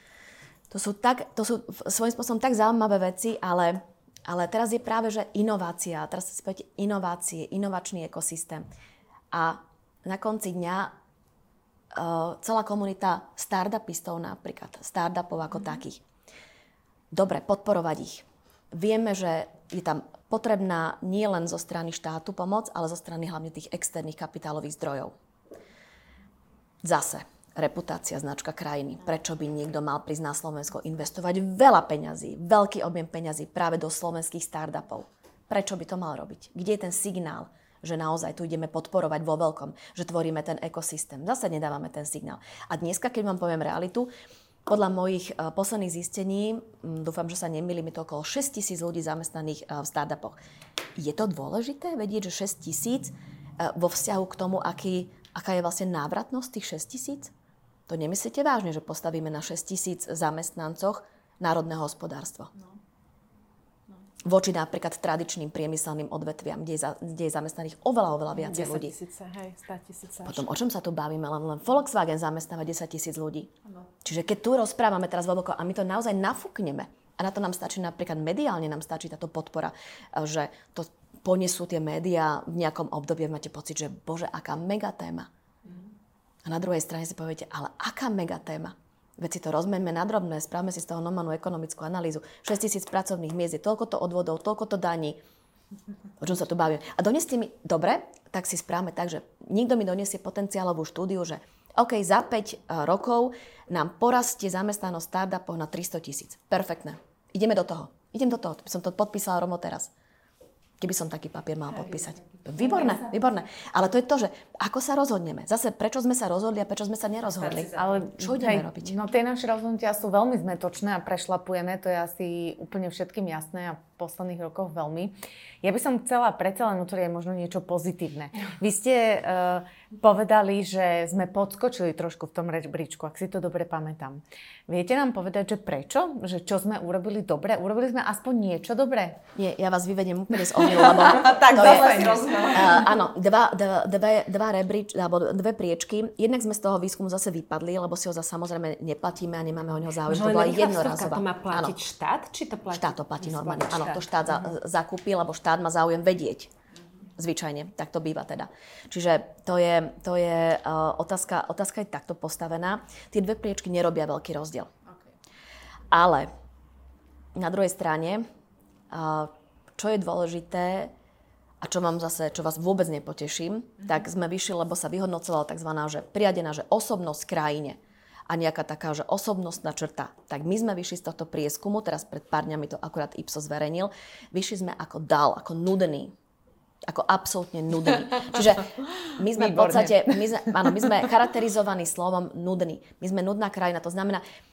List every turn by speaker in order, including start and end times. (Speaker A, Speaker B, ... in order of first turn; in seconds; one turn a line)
Speaker A: 0.7-8.7
Speaker A: 9.3-10.9
Speaker A: 11.9-16.0
Speaker A: 17.1-25.1
Speaker A: 26.8-44.1
Speaker A: 44.7-50.4
Speaker A: 51.0-57.3
Speaker A: 57.9-62.5
Speaker A: 64.2-68.9
Speaker B: 68.3-70.5
Speaker A: 70.2-85.3
Speaker A: 86.4-95.2
Speaker A: 96.2-109.9
Speaker A: 110.8-118.9
Speaker B: 117.2-118.1
Speaker C: 117.8-139.2
Speaker A: 139.3-151.7
Speaker C: 140.8-142.5
Speaker B: 141.1-142.8
Speaker B: 150.1-154.5
Speaker A: 152.7-156.5
Speaker A: 157.2-164.7
Speaker A: 165.9-166.3
Speaker A: 167.3-168.2
Speaker A: 168.9-170.9
Speaker A: 171.6-186.1
Speaker A: 186.8-194.2
Speaker C: 189.3-190.2